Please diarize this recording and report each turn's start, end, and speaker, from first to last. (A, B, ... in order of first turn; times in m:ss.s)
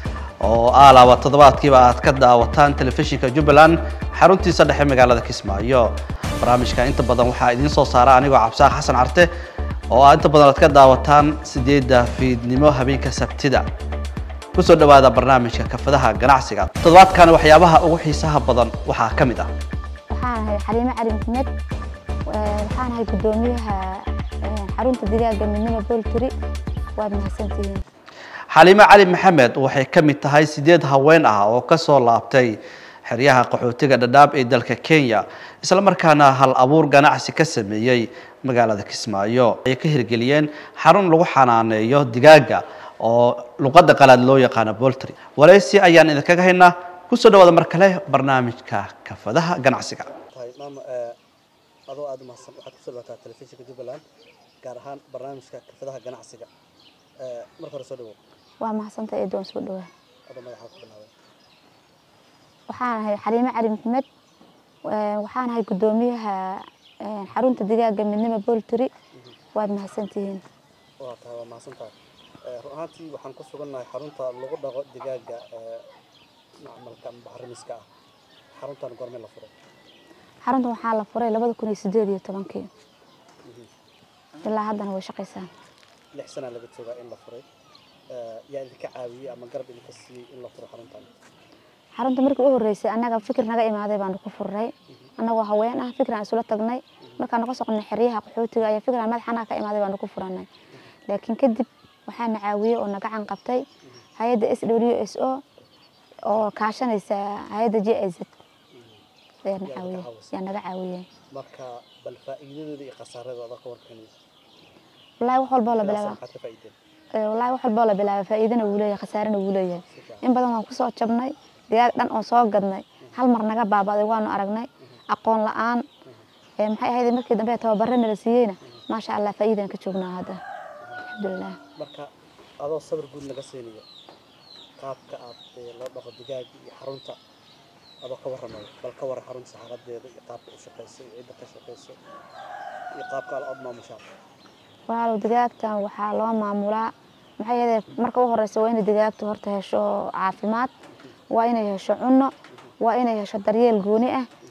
0:00.4-0:09.3 A
0:09.9-0:13.7 A
0:14.6-0:19.5 A
0:20.1-0:21.5 B
0:22.3-0:26.3 B
0:27.0-0:27.8 B
0:28.5-0:50.1 A
0:50.3-0:51.2 C
0:51.9-0:54.0 C
0:54.6-0:56.5 C
0:57.2-0:58.2 C
0:58.6-0:59.9 B
1:00.3-1:01.1 C
1:02.7-1:04.1 B
1:04.9-1:08.9 B
1:09.6-1:10.4 B
1:11.0-1:11.9 C
1:12.5-1:15.9 C
1:16.6-1:17.9 C
1:18.5-1:19.5 C
1:20.4-1:22.7 B
1:24.4-1:25.5 B
1:26.1-1:27.4 C
1:28.1-1:31.1 C
1:32.0-1:40.5 B
1:41.1-1:43.6 B
1:44.2-1:45.4 B
1:46.3-1:48.3 B
1:48.7-1:49.0 C
1:49.5-1:51.1 B
1:49.6-1:50.5 C
1:51.3-1:54.1 C
1:55.2-1:56.2 B
1:55.7-1:56.8 C
1:57.2-2:05.8 B
1:59.9-2:00.2 C
2:06.6-2:10.4 B
2:11.1-2:11.6 B
2:11.8-2:12.1 C
2:12.6-2:13.8 C
2:14.8-2:17.2 C
2:18.0-2:22.0 C
2:22.9-2:24.1 C
2:24.9-2:30.7 B
2:31.3-2:34.3 B